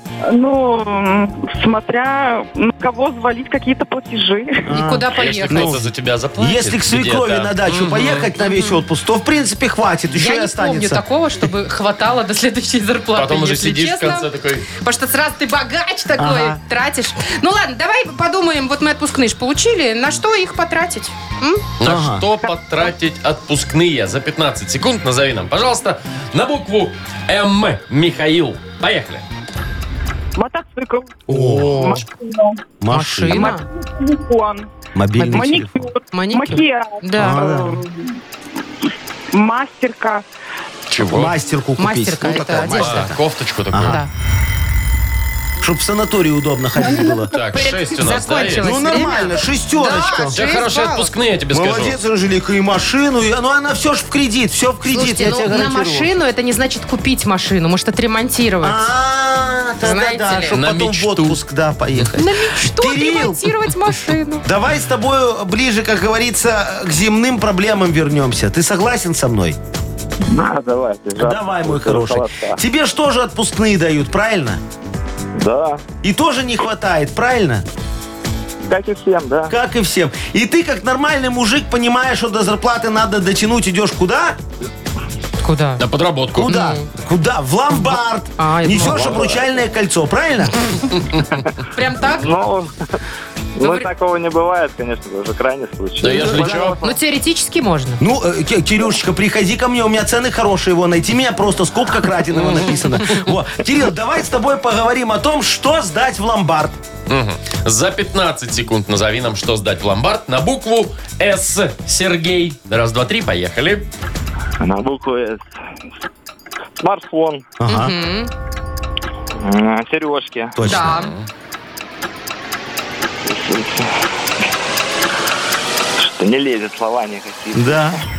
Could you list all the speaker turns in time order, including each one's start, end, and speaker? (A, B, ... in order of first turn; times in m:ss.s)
0:00.3-0:04.7 A
0:04.7-0:11.0 B
0:04.7-0:05.8 C
0:05.1-0:08.3 D
0:08.4-0:08.8 C
0:10.2-0:21.6 C
0:13.1-0:14.6 D
0:16.2-0:16.6 B
0:21.8-0:29.2 D
0:21.8-0:22.2 B
0:30.4-0:32.6 A
0:31.3-0:32.0 B
0:31.4-0:31.7 D
0:32.8-0:33.5 B
0:32.9-0:33.6 C
0:33.2-0:34.7 A
0:34.9-0:35.9 B
0:35.2-0:35.5 C
0:35.2-0:38.0 A
0:36.1-0:37.5 C
0:37.2-0:37.8 B
0:39.3-0:40.2 A
0:40.9-0:41.3 D
0:41.0-0:43.2 B
0:41.8-0:43.1 C
0:42.8-0:44.0 D
0:43.7-0:44.0 B
0:43.8-0:44.1 C
0:45.6-0:47.3 B
0:46.8-0:47.8 A
0:47.0-0:51.1 C
0:47.3-0:48.8 D
0:48.6-0:50.4 B
0:50.3-0:52.0 D
0:51.5-0:56.1 B
0:54.9-0:58.9 C
0:58.6-1:03.5 B
0:59.8-1:00.6 C
1:00.5-1:01.4 D
1:02.1-1:04.5 C
1:04.4-1:09.6 B
1:10.3-1:12.6 E
1:11.2-1:14.6 B
1:15.4-1:15.8 E
1:16.0-1:17.6 B
1:18.6-1:19.5 E
1:19.5-1:24.4 B
1:25.4-1:25.8 C
1:25.8-1:26.5 D
1:26.4-1:30.9 B
1:26.4-1:26.9 C
1:27.7-1:29.3 C
1:28.8-1:29.6 E
1:31.7-1:32.3 C
1:32.2-1:32.7 E
1:33.6-1:37.0 E
1:33.6-1:33.9 C
1:36.0-1:36.8 D
1:36.2-1:36.7 B
1:36.8-1:38.0 C
1:38.0-1:46.8 B
1:42.3-1:42.8 D
1:47.1-1:53.9 D
1:54.6-1:55.4 E
1:56.8-1:57.4 E
1:57.6-1:57.9 B
1:57.7-1:58.3 C
1:59.4-2:00.6 E
2:00.6-2:01.1 B
2:00.6-2:01.1 C
2:00.9-2:01.2 D
2:03.3-2:03.8 E
2:06.0-2:08.0 E
2:07.5-2:08.0 B